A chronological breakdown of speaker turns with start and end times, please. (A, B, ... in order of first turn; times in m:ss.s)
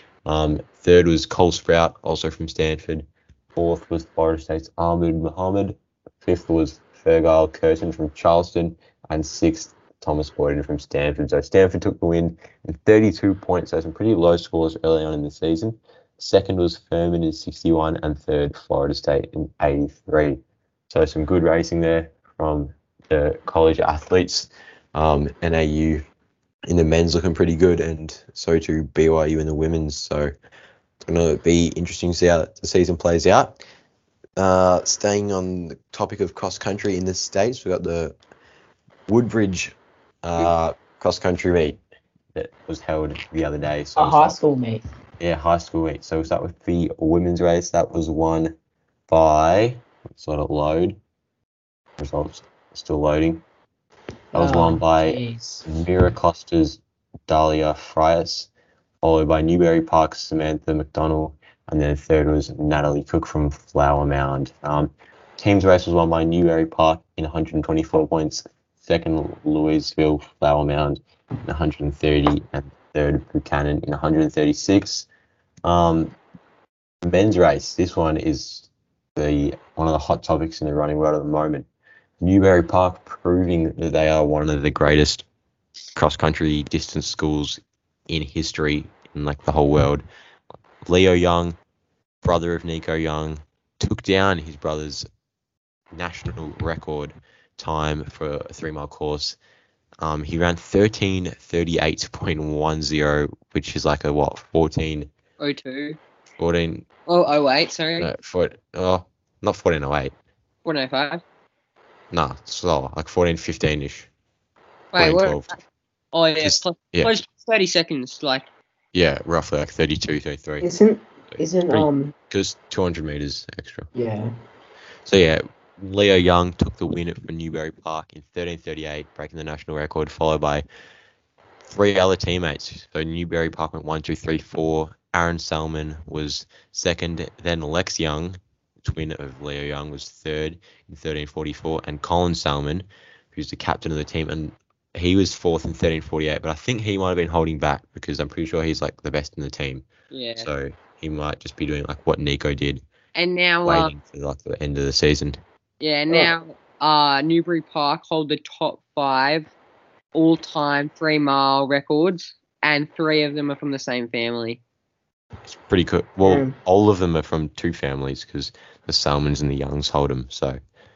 0:00.2-0:26.0 A
0:26.7-0:30.3 A
0:31.0-0:33.6 A
0:34.4-0:38.2 A
0:39.1-0:41.8 A
0:42.3-0:44.4 A
0:44.0-0:44.8 B
0:45.2-0:48.5 A
0:49.1-0:51.0 A
0:52.0-0:53.4 A
0:54.3-0:55.6 B
0:54.3-0:58.5 A
0:59.0-1:15.1 A
1:15.6-1:16.2 A
1:17.0-1:21.7 A
1:22.2-1:25.2 A
1:26.0-1:30.0 A
1:30.8-1:31.6 A
1:32.2-1:35.0 A
1:35.9-1:39.4 A
1:40.0-1:45.1 A
1:45.4-1:46.0 C
1:46.4-1:46.8 A
1:47.1-1:48.1 C
1:48.0-1:50.1 A
1:50.6-1:51.2 C
1:52.1-1:54.1 A
1:54.9-1:55.6 C
1:55.0-1:55.5 A
1:56.1-1:58.5 C
1:56.4-1:57.1 A
1:58.9-2:00.6 A
2:00.6-2:02.1 B
2:01.3-2:03.9 A
2:03.9-2:04.3 B
2:05.0-2:10.6 A
2:11.7-2:32.8 A
2:30.1-2:30.5 C
2:33.1-2:33.9 C
2:33.6-2:35.4 A
2:35.8-2:39.5 C
2:40.1-2:44.6 C
2:45.5-2:50.6 A
2:46.2-2:46.5 B